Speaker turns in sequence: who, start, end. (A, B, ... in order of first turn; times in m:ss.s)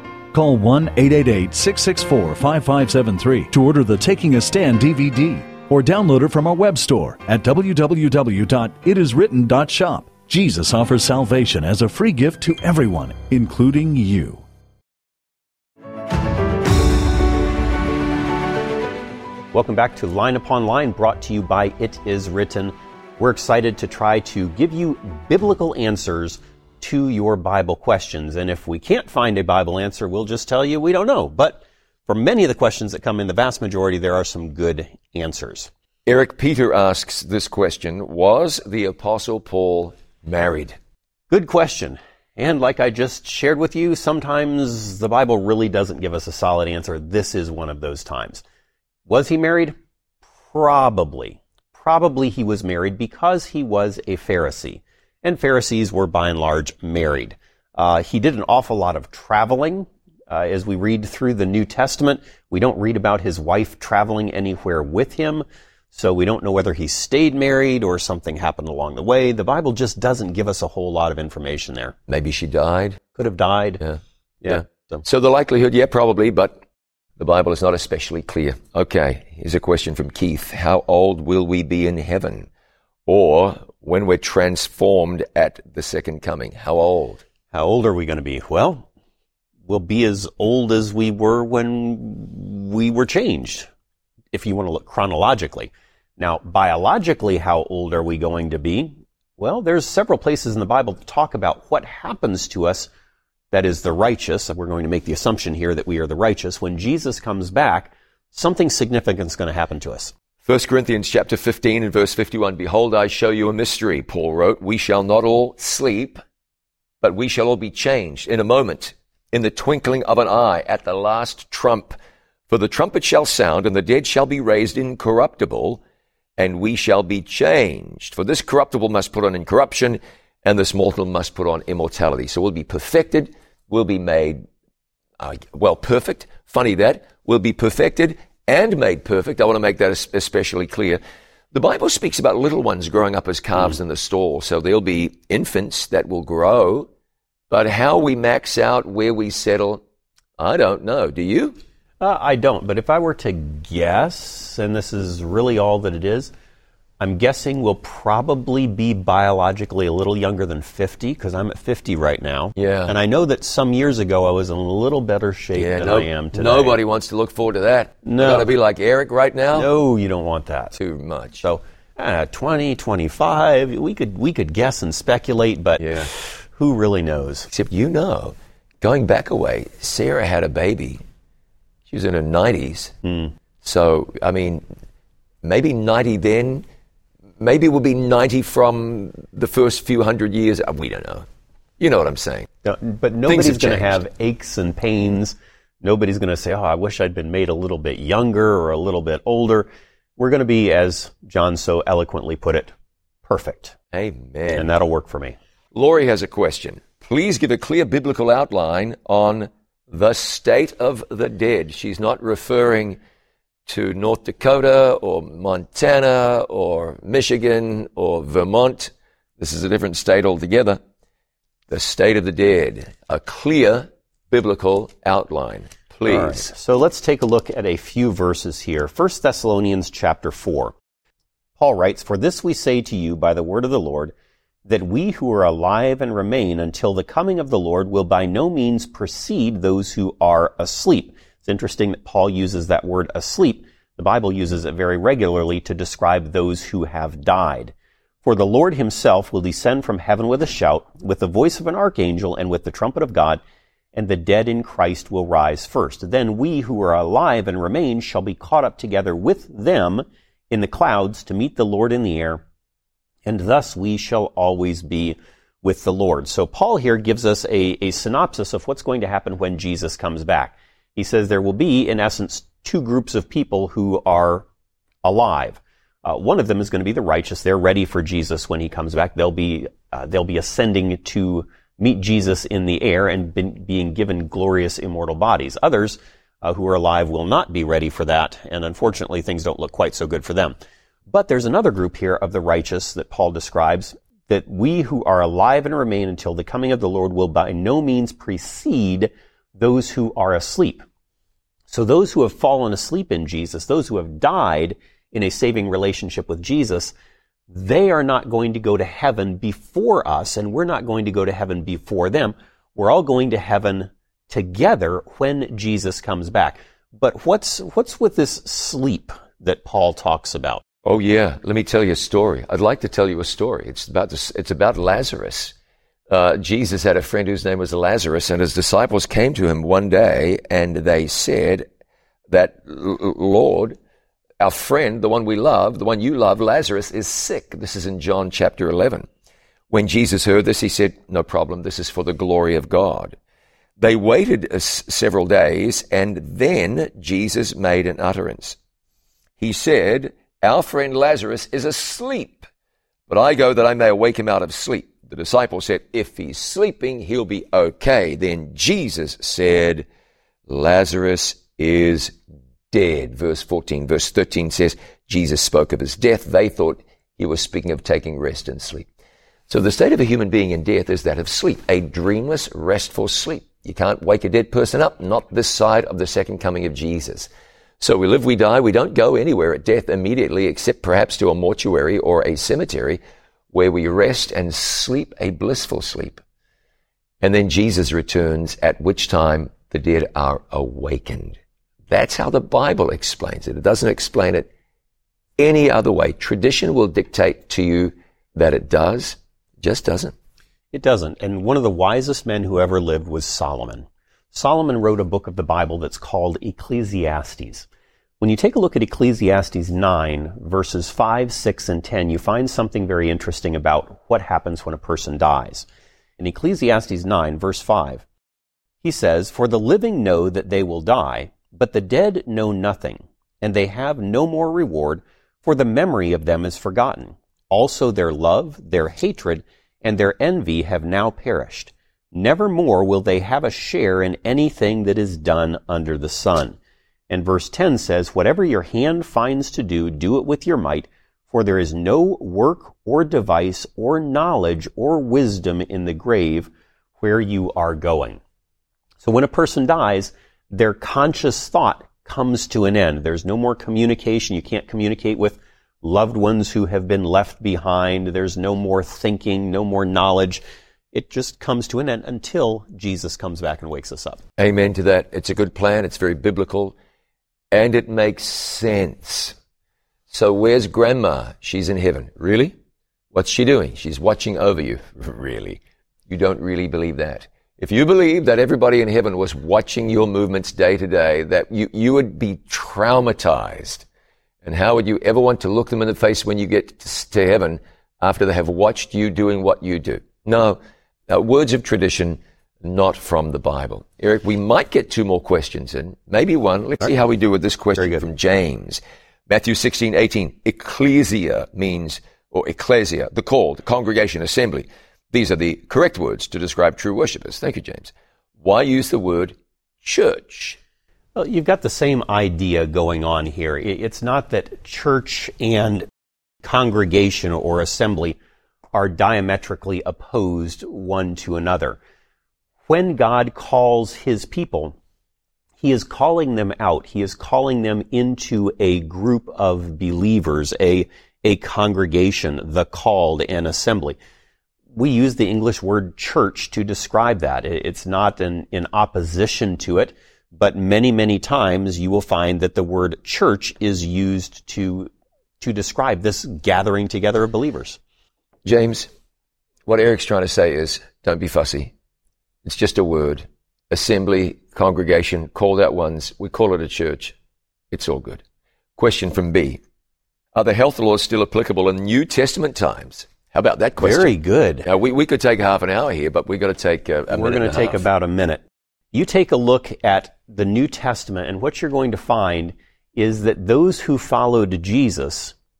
0:00.3-0:14.4 A
0:19.5-0:35.7 B
0:36.1-0:40.8 C
0:41.3-0:48.4 B
0:49.1-0:49.8 B
0:50.5-1:12.0 B
1:12.1-1:13.0 C
1:13.1-1:13.8 B
1:13.8-1:16.6 C
1:14.4-1:15.0 B
1:17.2-1:22.5 C
1:23.1-1:27.2 C
1:27.5-1:28.9 B
1:29.6-1:33.7 B
1:34.3-1:42.9 B
1:43.5-1:50.1 B
1:50.4-1:56.2 C
1:57.0-2:02.0 C
2:02.5-2:05.8 C
2:06.4-2:14.4 C
2:15.2-2:21.0 C
2:21.5-2:26.9 C
2:27.5-2:29.8 C
2:30.4-2:31.6 C
2:32.0-2:36.3 B
2:37.0-2:46.8 B
2:42.6-2:43.0 C
2:45.5-2:49.7 C
2:48.0-2:48.5 B
2:49.5-2:50.8 B
2:50.8-2:51.4 C
2:51.4-2:57.5 B
2:55.8-2:56.1 C
2:57.5-3:01.0 C
3:01.9-3:02.9 C
3:03.0-3:03.3 B
3:03.6-3:04.6 C
3:05.4-3:06.6 C
3:07.4-3:11.3 C
3:11.8-3:12.5 C
3:12.6-3:22.7 B
3:13.3-3:14.0 C
3:23.2-3:23.8 B
3:23.9-3:24.7 C
3:24.5-3:25.4 B
3:25.7-3:33.0 C
3:33.7-3:40.8 C
3:41.7-3:46.5 C
3:46.1-3:50.8 B
3:51.6-3:54.1 B
3:54.6-4:13.4 B
4:13.9-4:22.4 B
4:23.2-4:34.4 B
4:35.0-4:50.6 B
4:51.1-5:00.8 B
5:01.7-5:06.9 B
5:07.5-5:20.6 B
5:20.8-5:25.5 C
5:26.1-5:31.7 C
5:32.3-5:33.8 C
5:34.4-5:39.1 C
5:39.7-5:43.2 C
5:43.8-5:48.6 C
5:49.4-5:52.5 C
5:53.1-5:59.9 C
6:00.5-6:08.9 C
6:09.5-6:17.3 C
6:17.8-6:23.0 C
6:23.5-6:26.2 C
6:27.2-6:31.4 C
6:31.9-6:34.5 C
6:35.4-6:40.1 C
6:40.7-6:47.7 B
6:48.2-6:55.7 B
6:56.2-6:58.0 B
6:58.8-7:16.6 B
7:17.1-7:28.2 B
7:29.0-7:44.2 B
7:44.4-7:46.8 C
7:47.5-7:49.4 C
7:50.1-7:52.6 C
7:53.1-8:03.9 C
8:04.4-8:27.9 C
8:17.8-8:18.0 B
8:28.4-8:30.6 C
8:31.1-8:35.9 B
8:36.4-8:38.2 B
8:38.7-8:41.8 B
8:42.6-8:44.8 B
8:45.6-8:54.0 B
8:54.7-9:07.8 B
9:08.4-9:08.9 C
9:09.6-9:11.7 C
9:12.4-9:17.1 C
9:17.7-9:18.2 C
9:18.8-9:19.6 C
9:20.4-9:24.1 C
9:23.8-9:24.7 B
9:24.6-9:27.8 C
9:27.1-9:35.3 B